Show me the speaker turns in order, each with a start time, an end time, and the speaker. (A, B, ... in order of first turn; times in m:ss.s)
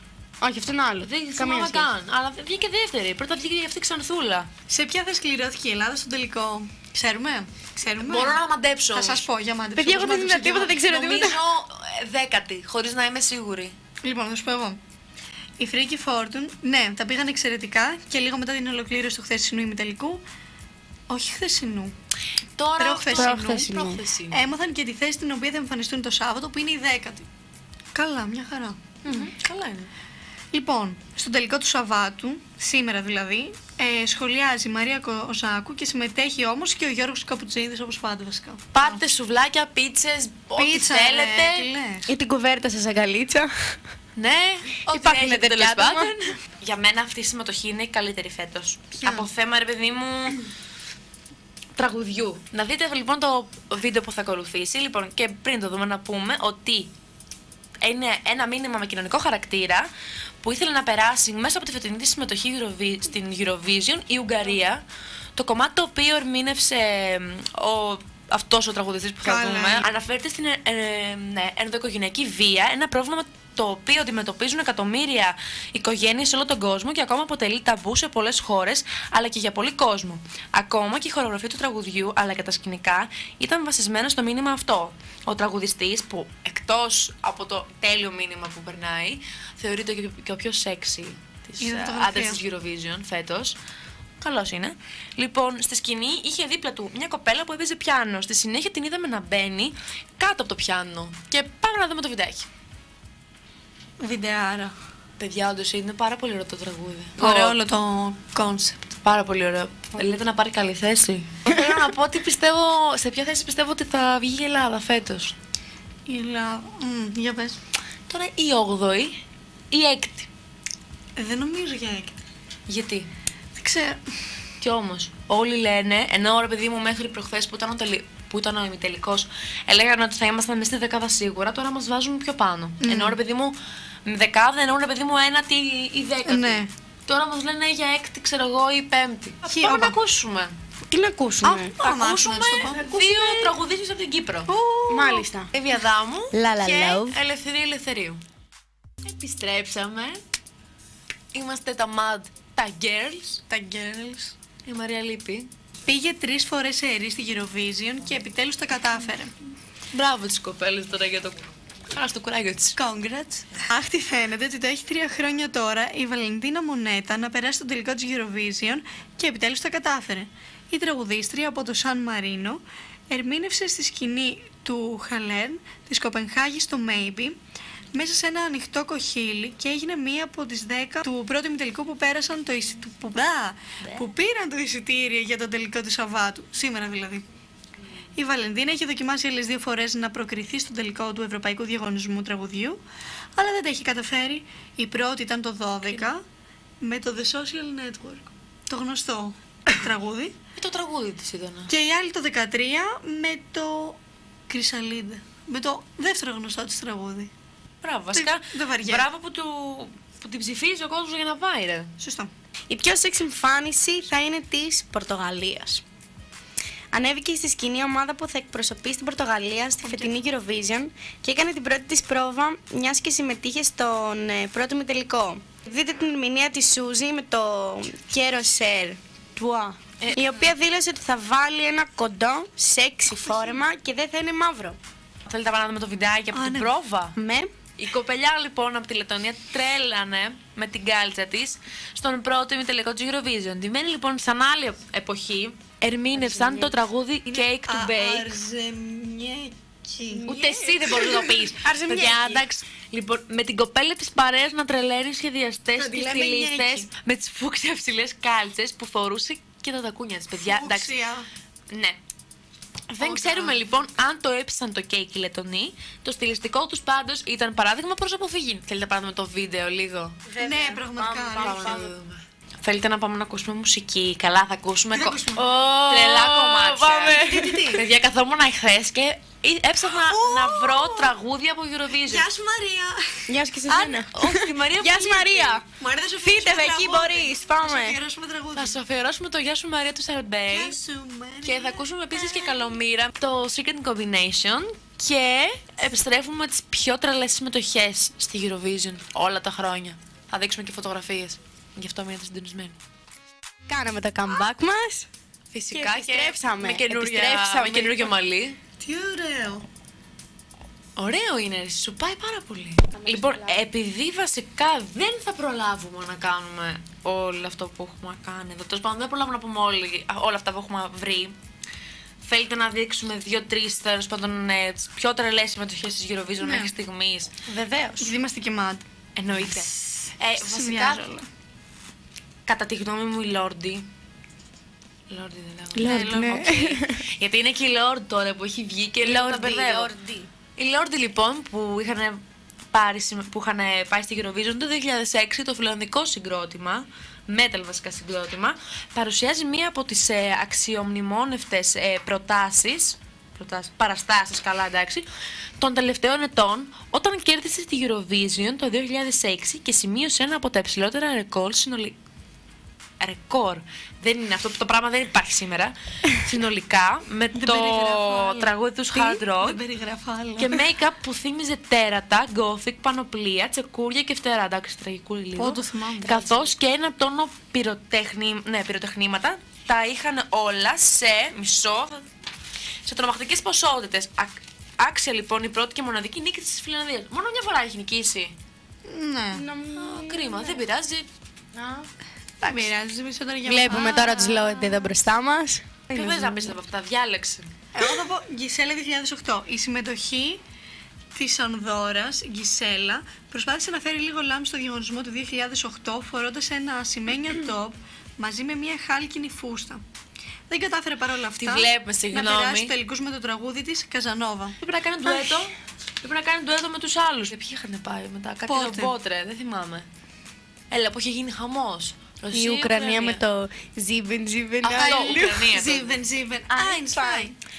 0:00.4-0:01.9 A
0:01.0-0:04.5 B
0:04.7-0:08.4 C
0:08.0-0:09.2 B
0:08.9-0:10.8 C
0:09.8-0:11.4 A
0:10.7-0:13.7 B
0:14.0-0:14.8 C
0:15.6-0:20.2 C
0:21.1-0:21.9 C
0:22.6-0:24.5 B
0:22.8-0:23.7 C
0:23.1-0:24.0 A
0:24.3-0:27.2 C
0:27.9-0:29.3 C
0:29.0-0:29.9 B
0:30.5-0:39.0 C
0:38.7-0:41.7 B
0:40.6-0:42.1 C
0:42.1-0:43.8 A
0:44.2-0:50.4 B
0:44.9-0:46.3 A
0:49.0-0:49.3 C
0:51.8-0:56.9 B
0:57.8-0:59.9 B
1:00.4-1:04.8 B
1:05.4-1:33.6 B
1:09.2-1:09.9 C
1:31.6-1:32.4 C
1:34.2-1:42.5 B
1:44.0-1:44.7 C
1:45.2-1:47.6 B
1:47.2-1:48.8 C
1:48.9-1:55.3 B
1:56.0-1:57.6 C
1:58.1-1:59.2 B
1:59.7-2:00.3 B
2:01.2-2:02.2 C
2:02.7-2:03.1 B
2:03.6-2:04.0 C
2:04.6-2:20.6 B
2:12.8-2:13.2 C
2:16.2-2:16.7 C
2:19.5-2:20.0 C
2:20.9-2:21.7 A
2:21.4-2:24.5 B
2:21.7-2:23.5 C
2:24.5-2:25.2 C
2:24.9-2:25.5 A
2:25.5-2:28.2 B
2:26.3-2:27.2 A
2:29.0-2:30.2 B
2:31.3-2:33.4 B
2:33.5-2:34.3 C
2:34.6-2:35.5 B
2:35.9-2:39.3 C
2:39.9-2:42.8 B
2:42.8-2:57.4 C
2:57.9-3:07.2 C
3:08.2-3:12.8 C
3:13.4-3:16.2 C
3:16.8-3:20.3 C
3:20.6-3:21.7 B
3:21.7-3:27.3 C
3:27.8-3:31.9 B
3:28.1-3:29.0 C
3:32.0-3:32.3 C
3:32.7-3:35.8 A
3:36.9-3:54.8 A
3:39.8-3:40.2 C
3:50.0-3:50.5 B
3:53.1-3:53.6 C
3:55.2-3:57.2 B
3:56.3-3:56.7 C
3:57.2-3:57.5 A
3:57.8-4:08.4 B
4:06.1-4:06.7 A
4:07.3-4:10.3 C
4:10.1-4:12.4 A
4:10.3-4:20.9 B
4:10.9-4:11.4 C
4:15.8-4:16.9 C
4:20.4-4:21.3 C
4:21.7-4:22.0 B
4:22.9-4:30.2 B
4:23.0-4:23.6 C
4:30.2-4:31.9 A
4:30.4-4:31.8 C
4:31.4-4:42.2 B
4:34.9-4:37.9 C
4:36.7-4:37.7 A
4:40.0-4:41.1 C
4:42.0-4:43.2 C
4:43.3-4:45.6 A
4:43.7-4:45.6 B
4:45.8-4:48.8 C
4:46.2-4:48.0 A
4:48.5-4:50.8 B
4:50.5-4:52.7 C
4:51.4-5:02.8 B
5:03.7-5:05.1 A
5:05.5-5:08.6 B
5:05.7-5:08.1 A
5:08.8-5:09.6 C
5:11.0-5:21.3 B
5:12.9-5:13.6 A
5:22.2-5:27.3 B
5:26.4-5:26.7 C
5:27.5-5:28.1 A
5:27.5-5:31.3 C
5:29.2-5:31.0 B
5:32.5-5:33.9 B
5:35.1-5:39.9 B
5:35.7-5:37.0 A
5:39.0-5:40.3 A
5:40.6-5:42.2 B
5:42.7-5:55.0 B
5:55.6-6:01.9 B
6:03.0-6:09.6 B
6:07.3-6:10.7 C
6:10.4-6:22.1 B
6:15.4-6:16.5 C
6:22.8-6:28.3 B
6:28.8-6:29.4 C
6:29.3-6:30.6 A
6:29.7-6:31.1 B
6:31.5-6:31.9 A
6:32.4-6:34.9 C
6:33.4-6:36.6 A
6:35.9-6:37.5 B
6:37.7-6:40.4 C
6:41.1-6:49.8 C
6:50.5-6:54.6 C
6:51.4-6:52.7 B
6:54.6-6:59.8 B
6:58.5-6:58.9 C
7:00.7-7:03.2 B
7:02.3-7:05.4 A
7:04.6-7:06.0 B
7:04.7-7:07.4 C
7:06.5-7:07.3 A